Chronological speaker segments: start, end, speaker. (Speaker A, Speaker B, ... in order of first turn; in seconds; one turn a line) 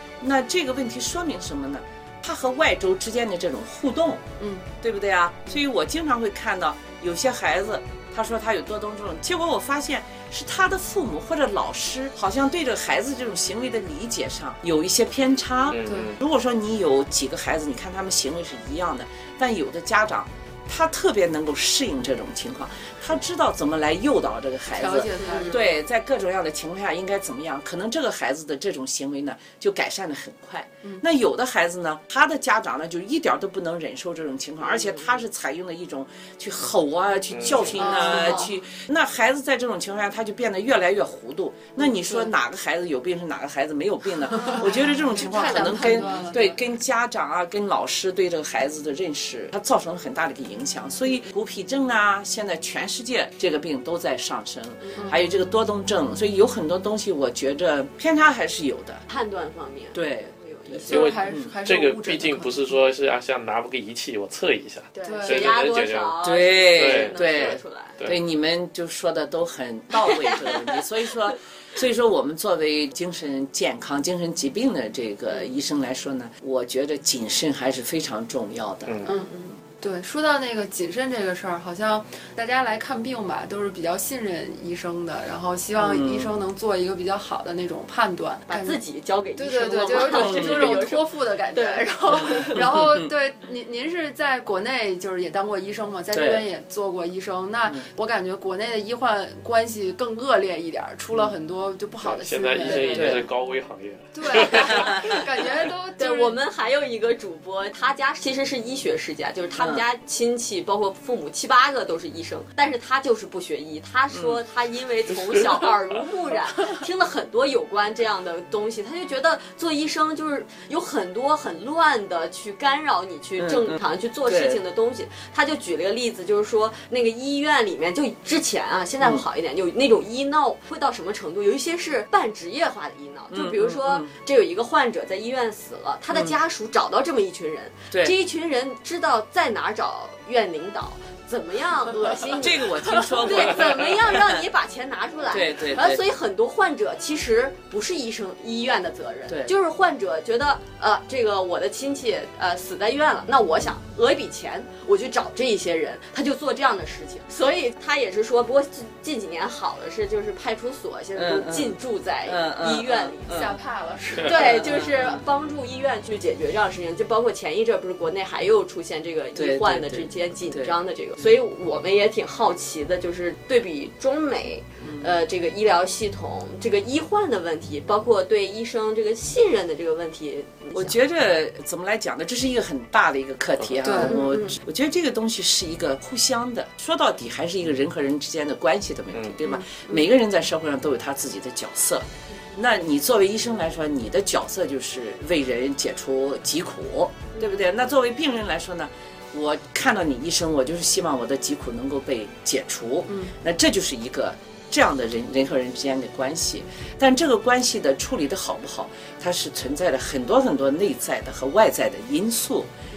Speaker A: 0.2-4.2
Speaker B: 4.4-4.7
Speaker A: 4.8-59.0
Speaker C: 15.7-16.2
Speaker B: 15.8-16.1
Speaker B: 24.7-25.6
Speaker D: 25.2-25.6
Speaker C: 37.3-37.8
Speaker B: 37.7-38.5
Speaker D: 37.8-38.4
Speaker B: 44.3-46.6
Speaker D: 44.4-46.3
Speaker B: 55.0-55.2
Speaker D: 59.1-61.1
Speaker A: 59.9-61.5
Speaker B: 60.9-62.7
Speaker C: 60.9-68.2
Speaker D: 64.9-68.0
Speaker B: 65.0-65.5
Speaker A: 66.2-79.0
Speaker D: 70.1-70.6
Speaker B: 79.0-88.8
Speaker A: 85.8-86.4
Speaker D: 88.5-92.6
Speaker B: 89.4-103.2
Speaker A: 90.1-90.8
Speaker A: 92.2-93.1
Speaker A: 96.1-96.5
Speaker C: 102.0-105.2
Speaker A: 102.6-103.3
Speaker B: 104.1-106.4
Speaker D: 106.0-163.4
Speaker A: 109.5-109.8
Speaker A: 114.1-114.4
Speaker C: 115.2-115.7
Speaker A: 123.4-124.6
Speaker A: 133.3-134.1
Speaker A: 142.3-144.4
Speaker A: 145.3-146.0
Speaker A: 149.3-149.5
Speaker A: 161.1-163.6
Speaker B: 163.3-164.6
Speaker D: 164.2-181.0
Speaker A: 164.2-165.2
Speaker A: 169.3-170.7
Speaker A: 174.8-175.1
Speaker A: 180.7-212.7
Speaker B: 183.8-184.2
Speaker D: 184.0-184.5
Speaker B: 189.4-189.7
Speaker B: 203.1-203.3